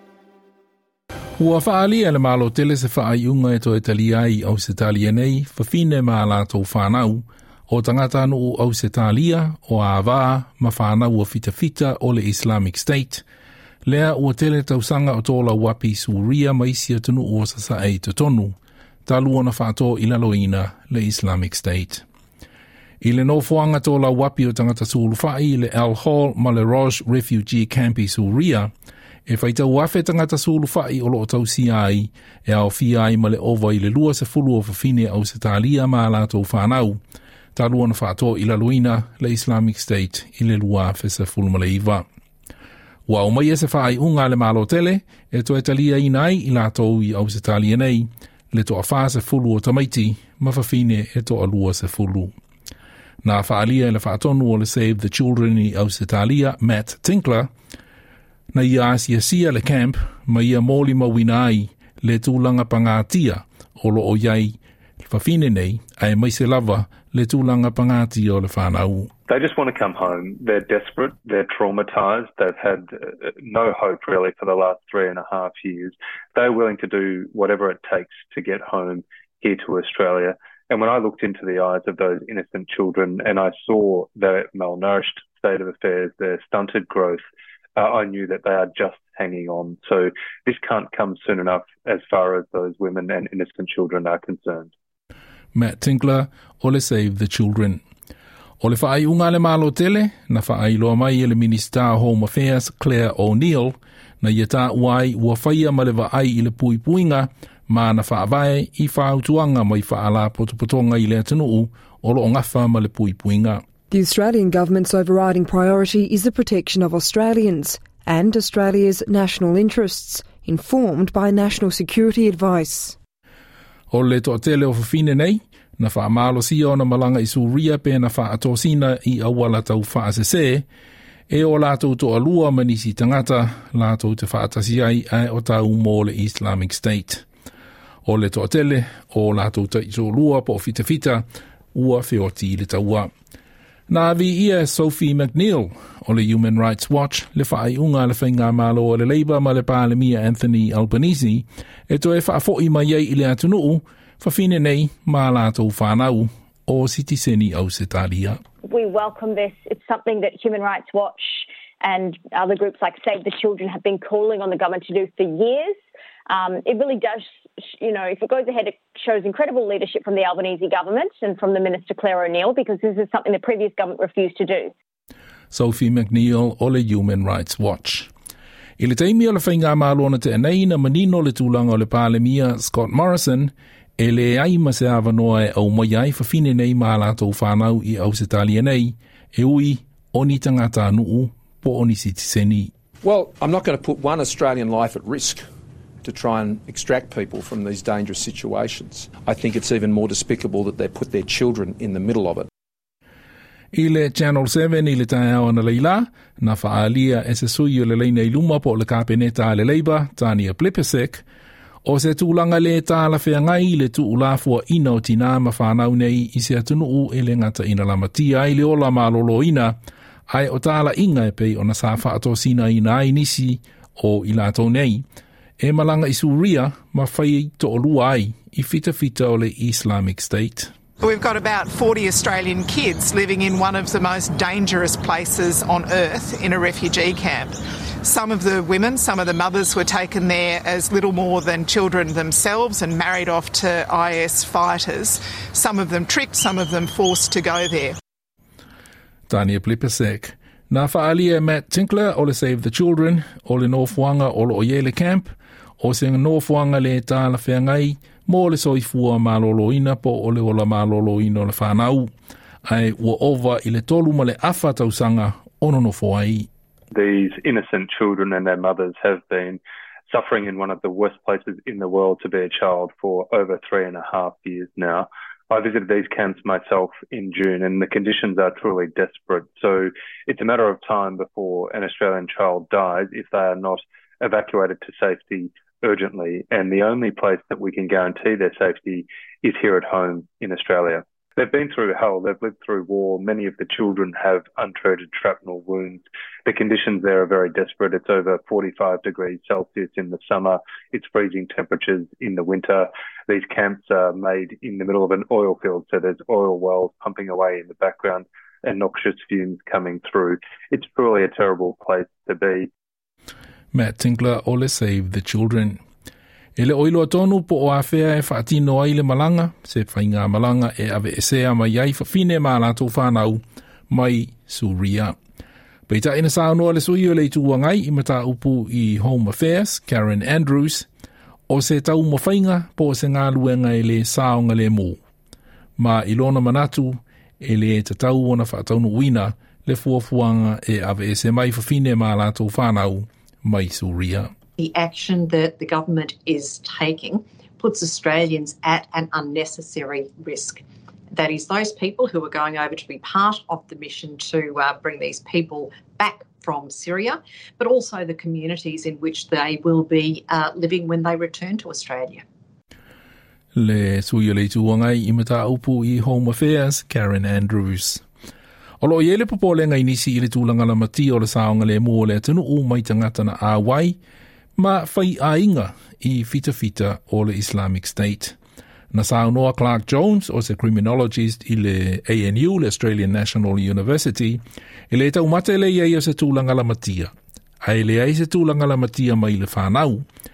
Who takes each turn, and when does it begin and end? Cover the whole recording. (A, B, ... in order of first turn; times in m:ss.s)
0:01.4-0:13.2 A
0:13.8-0:22.0 A
0:23.0-0:28.7 A
0:29.3-0:37.0 A
0:37.6-0:42.0 A
0:43.1-0:52.3 A
0:53.2-0:57.5 A
0:58.5-1:09.1 A
1:09.3-1:27.2 B
1:27.8-1:34.7 B
1:35.5-1:37.8 A
1:38.6-1:53.6 A
1:53.9-2:03.0 C
2:03.9-2:10.6 A
2:11.3-2:17.2 A
2:18.0-2:23.1 A
2:23.9-2:38.4 A
2:38.6-2:54.7 D
2:55.5-2:58.1 A
2:58.8-3:12.7 A
3:13.0-3:15.5 E
3:16.0-3:22.5 E
3:23.7-3:31.2 A
3:31.8-3:39.8 A
3:40.3-3:45.0 A
3:45.6-3:50.7 A
3:51.0-4:08.0 F
4:09.3-4:22.1 A
4:22.7-4:26.5 A
4:26.9-5:12.7 B
5:13.7-5:15.8 A
5:16.6-5:25.2 A
5:25.9-5:30.9 A
5:31.5-5:35.0 A
5:35.8-5:44.3 A
5:44.6-6:02.3 G
6:03.6-6:08.0 A
6:08.8-6:14.0 A
6:14.6-6:18.4 A
6:18.9-6:30.1 A